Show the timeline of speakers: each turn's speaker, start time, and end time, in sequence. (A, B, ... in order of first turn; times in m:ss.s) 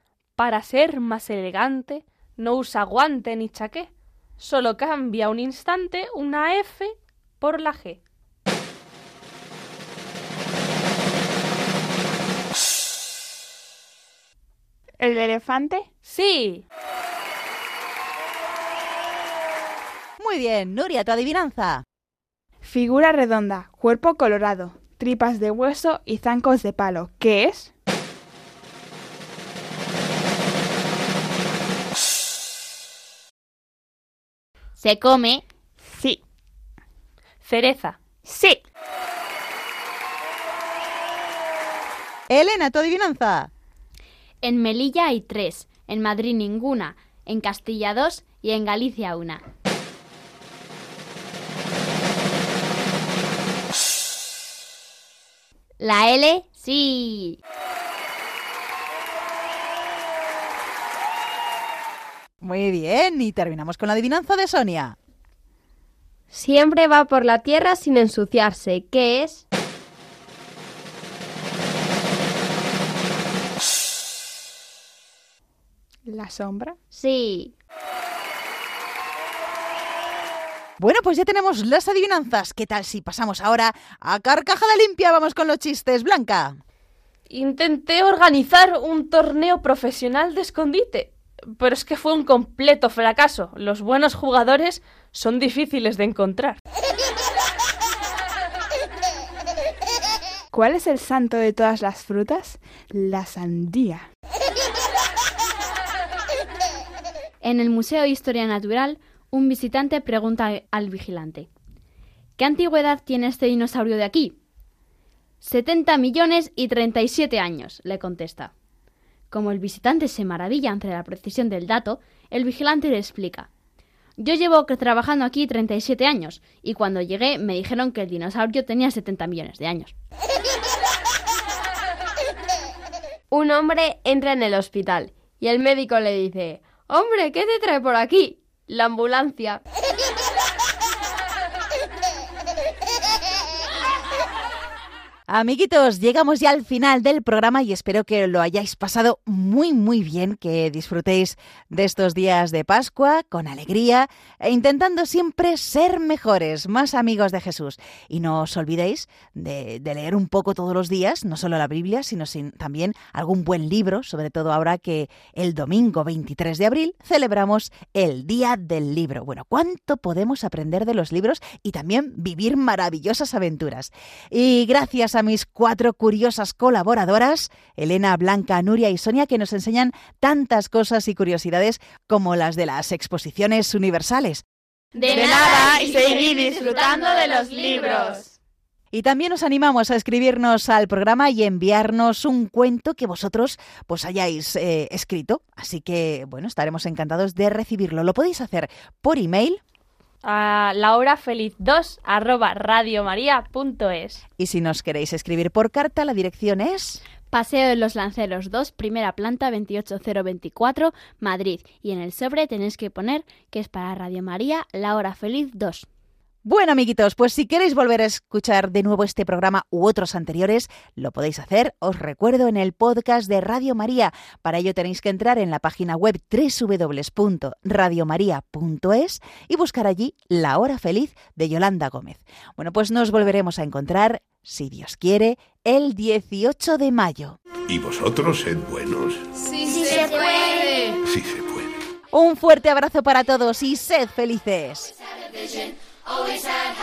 0:00.4-0:08.0 A
0:15.0-0:15.9 B
0:16.1-0:16.6 A
0:20.2-0:21.8 C
0:22.6-0:27.7 B
0:34.8-0:35.4 D
0:35.9-0:36.2 B
0:37.4-0:38.0 A
0:42.3-0:43.5 C
0:44.4-0:49.4 D
0:55.8-0:57.4 D
1:02.4-1:05.0 C
1:06.3-1:09.4 E
1:16.1-1:16.8 B
1:16.9-1:17.5 D
1:20.8-1:26.6 C
1:27.3-1:36.6 A
1:40.5-1:44.1 B
1:47.4-1:51.5 D
1:52.4-1:54.4 D
1:55.4-1:58.5 D
1:59.3-2:03.5 D
2:04.2-2:09.9 D
2:13.3-2:19.6 E
2:25.3-3:04.4 C
3:05.0-3:06.4 D
3:05.0-3:08.2 F
3:05.1-3:08.1 B
3:08.9-3:19.6 C
3:20.2-3:24.2 A
3:24.4-3:27.0 C
3:27.3-3:35.9 D
3:36.4-3:57.4 C
3:57.7-3:59.2 G
3:59.4-4:01.0 F
4:01.0-4:01.7 G
4:02.1-4:04.9 C